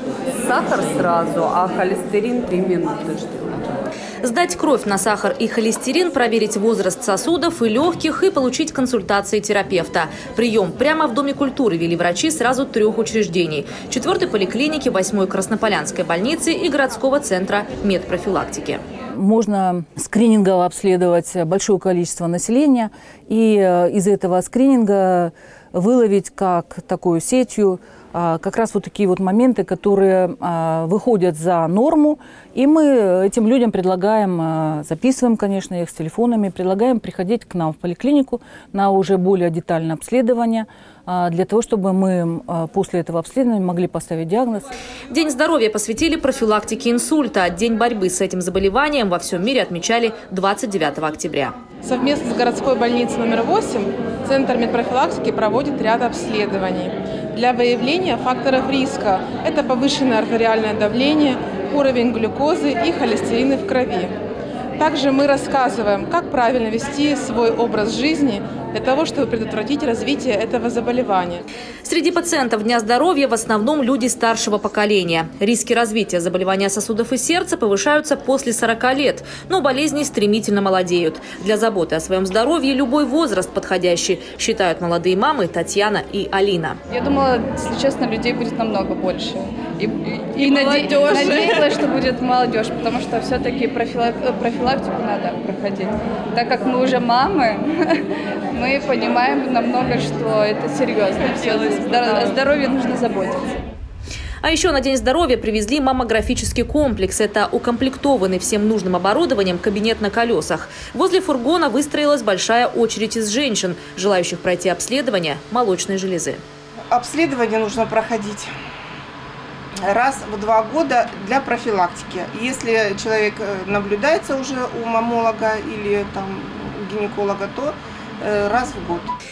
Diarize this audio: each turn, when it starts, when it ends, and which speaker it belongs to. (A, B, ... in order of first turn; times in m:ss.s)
0:00.4-0:03.8 A
0:04.2-0:18.8 B
0:19.1-0:44.7 C
0:45.1-0:51.5 B
0:51.8-1:04.1 D
1:04.8-1:11.4 D
1:11.8-1:26.8 B
1:26.9-1:43.5 E
1:44.4-1:56.4 B
1:56.9-1:58.5 F
1:59.8-2:09.1 F